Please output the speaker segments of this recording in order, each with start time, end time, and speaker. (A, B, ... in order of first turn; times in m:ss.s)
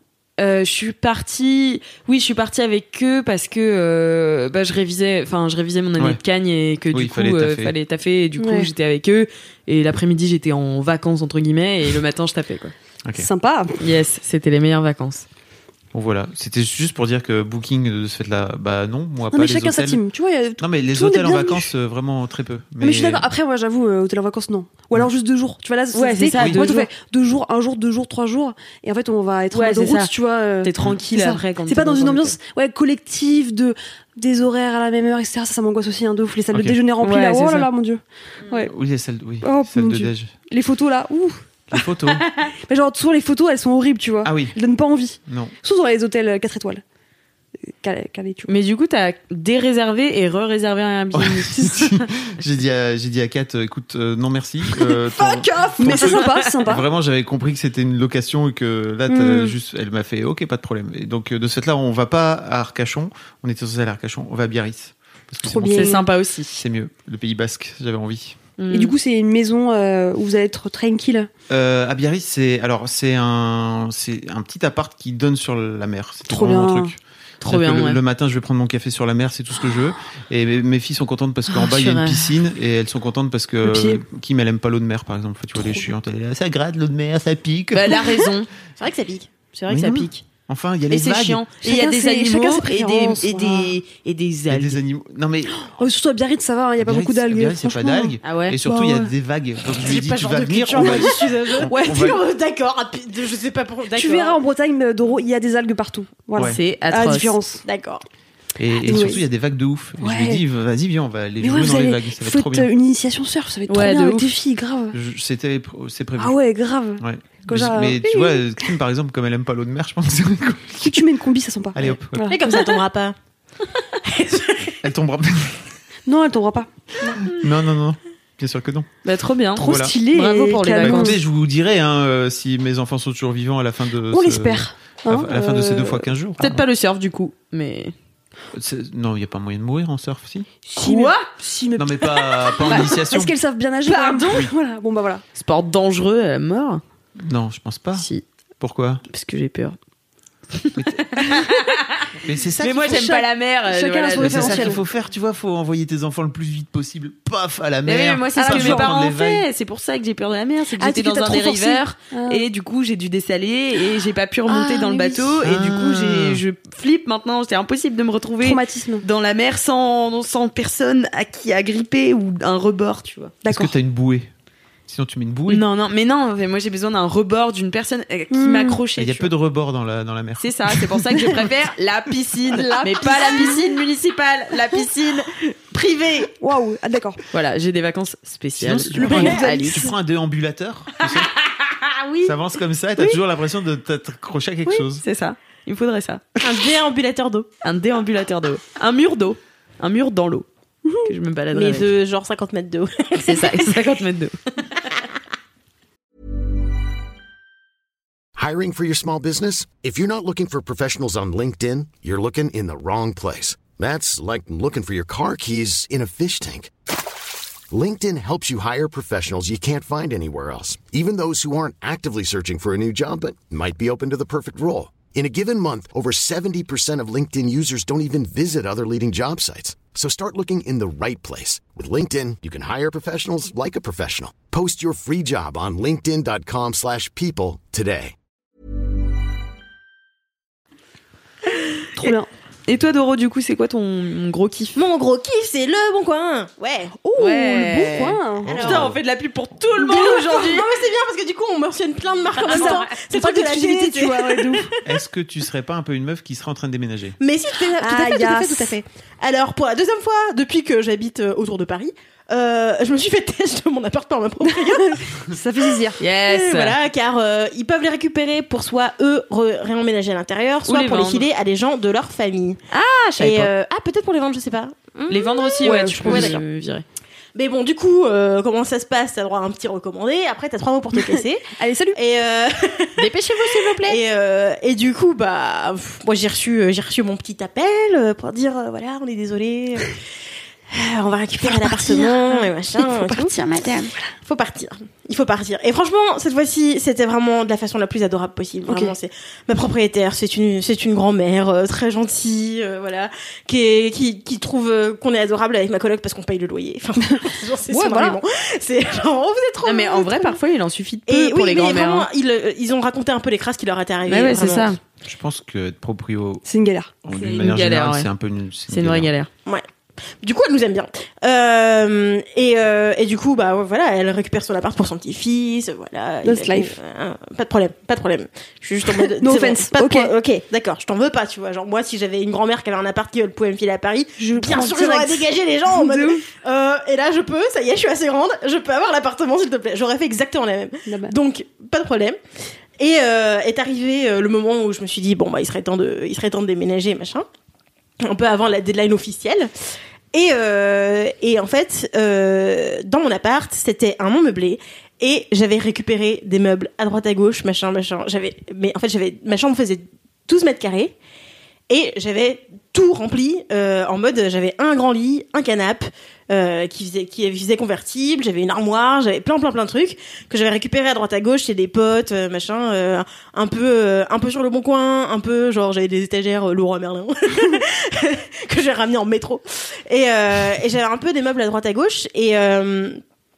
0:00.4-0:12.7 A
0:06.9-0:07.7 B
0:08.4-0:08.7 C
0:13.2-0:13.8 C
0:13.8-0:15.2 A
0:15.9-0:20.0 B
0:19.3-0:21.7 C
0:20.6-0:23.3 B
0:22.8-0:38.7 C
0:25.9-0:26.9 A
0:29.5-0:30.1 A
0:30.6-0:32.4 A
0:36.5-0:36.8 B
0:37.0-0:37.7 A
0:38.7-0:40.3 B
0:39.4-0:41.8 C
0:41.7-0:42.2 B
0:42.7-0:46.8 C
0:44.2-0:44.6 B
0:45.3-0:45.5 B
0:47.7-0:48.6 C
0:48.5-0:52.0 A
0:51.2-1:06.0 B
0:54.8-0:56.9 C
0:59.1-0:59.6 C
1:05.4-1:06.1 C
1:05.6-1:06.6 A
1:06.5-1:08.4 B
1:08.6-1:08.9 A
1:08.7-1:11.3 C
1:11.5-1:28.1 B
1:16.3-1:16.9 C
1:17.4-1:18.0 A
1:21.5-1:22.2 A
1:23.6-1:24.0 C
1:25.6-1:25.9 C
1:27.7-1:28.5 A
1:28.8-1:29.4 D
1:29.5-1:30.2 A
1:29.7-1:31.4 B
1:30.9-1:34.8 A
1:31.6-1:33.8 C
1:34.5-1:35.7 B
1:35.6-1:39.1 C
1:36.8-1:42.2 B
1:38.2-1:38.6 A
1:39.8-1:44.4 D
1:40.8-1:41.1 C
1:43.9-1:47.6 C
1:46.4-1:47.4 A
1:47.6-1:48.0 D
1:48.6-1:52.7 B
1:48.8-1:49.2 C
1:50.0-1:50.4 C
1:51.4-1:55.0 C
1:53.7-1:54.3 A
1:54.9-1:56.4 B
1:56.2-1:58.7 C
1:57.0-2:01.0 B
2:00.8-2:02.8 C
2:01.8-2:02.3 B
2:02.3-2:03.2 D
2:04.0-2:04.8 D
2:04.8-2:05.6 B
2:06.1-2:07.2 C
2:07.3-2:08.9 B
2:09.0-2:11.1 A
2:09.6-2:10.0 B
2:09.6-2:11.2 C
2:10.8-2:16.6 B
2:14.1-2:16.1 C
2:16.4-2:17.9 A
2:18.5-2:20.5 B
2:20.6-2:25.2 C
2:20.8-2:21.3 A
2:21.8-2:23.4 B
2:23.9-2:24.3 A
2:24.3-2:24.5 B
2:25.4-2:26.8 A
2:27.2-2:28.0 B
2:28.0-2:28.2 A
2:28.6-2:29.0 B
2:29.1-2:29.8 A
2:30.6-2:32.0 A
2:30.8-2:31.3 B
2:32.2-2:33.0 B
2:32.6-2:34.8 A
2:32.8-2:34.8 C
2:34.2-2:39.4 B
2:37.9-2:53.4 A
2:38.4-2:38.9 C
2:40.8-2:42.5 C
2:44.5-2:45.5 C
2:45.4-2:46.4 B
2:48.4-2:49.0 C
2:53.4-2:53.7 C
2:53.5-2:54.3 B
2:54.9-2:55.6 B
2:55.5-2:59.3 A
2:58.3-2:58.8 C
2:59.0-3:00.7 B
3:00.4-3:05.3 A
3:02.6-3:03.6 C
3:03.1-3:03.5 D
3:05.7-3:06.3 D
3:06.4-3:07.2 C
3:07.3-3:09.9 A
3:08.6-3:11.3 B
3:09.0-3:09.9 C
3:12.2-3:15.0 B
3:15.0-3:16.2 A
3:16.4-3:17.5 D
3:17.6-3:20.5 A
3:20.8-3:21.1 C
3:21.0-3:21.9 A
3:21.5-3:23.9 D
3:23.2-3:24.4 A
3:28.4-3:36.7 E
3:37.7-3:58.1 E
4:02.0-4:02.3 C
4:02.7-4:04.8 A
4:04.8-4:07.0 D
4:07.0-4:08.7 C
4:07.2-4:10.7 A
4:08.4-4:09.0 B
4:09.8-4:14.6 D
4:12.4-4:14.7 C
4:12.4-4:12.8 A
4:14.8-4:17.2 B
4:17.2-4:25.2 D
4:17.6-4:18.8 C
4:24.6-4:26.0 C
4:26.0-4:26.8 A
4:26.2-4:32.6 D
4:30.6-4:31.3 A
4:32.7-4:33.5 A
4:33.2-4:36.4 D
4:35.1-4:36.8 A
4:35.6-4:36.4 C
4:37.4-4:50.0 D
4:41.6-4:42.0 C
4:43.0-4:44.0 A
4:50.7-4:53.4 D
4:51.4-4:54.1 C
4:53.4-4:53.8 A
4:54.2-5:10.4 D
4:58.7-4:58.9 C
5:07.1-5:08.2 C
5:09.6-5:12.1 A
5:11.1-5:14.8 D
5:14.1-5:14.8 A
5:15.0-5:16.4 B
5:16.4-5:16.9 C
5:17.0-5:19.1 B
5:17.1-5:18.1 A
5:18.7-5:19.3 A
5:20.2-5:42.2 D
5:26.2-5:26.8 C
5:29.0-5:30.1 C
5:34.2-5:36.2 C
5:40.9-5:41.2 C
5:42.8-5:47.3 D
5:48.0-5:49.5 D
5:50.1-6:01.0 D
6:01.7-6:23.0 D